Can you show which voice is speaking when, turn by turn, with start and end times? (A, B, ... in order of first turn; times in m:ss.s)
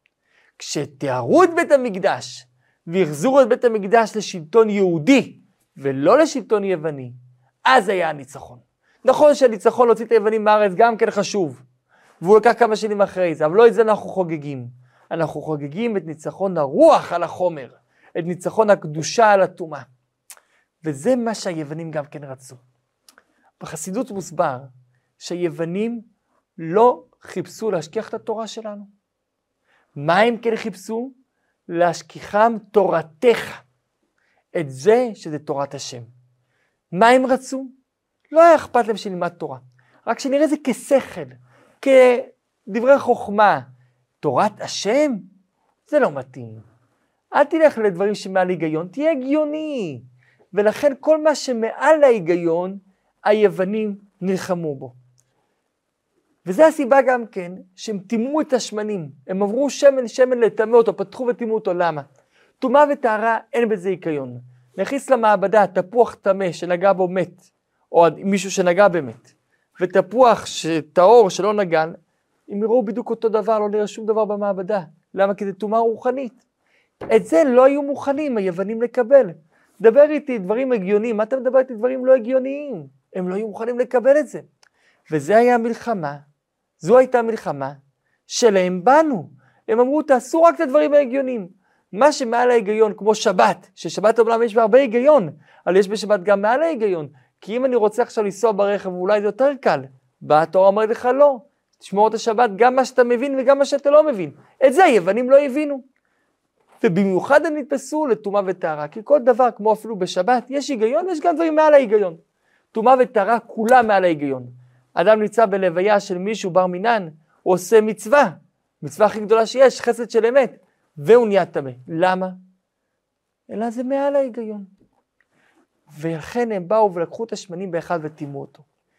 0:00.6-0:07.2 A
0:07.7-0:11.6 A
0:12.2-0:19.9 A
0:20.8-0:22.6 A
0:23.6-0:26.0 A
0:26.6-0:28.9 A
0:30.0-0:31.1 A
0:31.7-0:33.6 A
0:34.6-0:36.1 A
0:36.9-0:37.7 A
0:38.3-0:43.7 A
0:44.2-0:45.3 A
0:45.9-0:46.6 A
0:47.3-0:54.9 A
0:56.4-1:02.1 A
1:02.6-1:12.0 A
1:12.5-1:16.4 A
1:17.1-1:24.4 A
1:25.1-1:26.2 A
1:26.8-1:27.8 A
1:28.3-1:45.8 A
1:46.8-1:52.2 A
1:52.7-2:02.4 A
2:03.5-2:04.7 A
2:05.9-2:08.6 A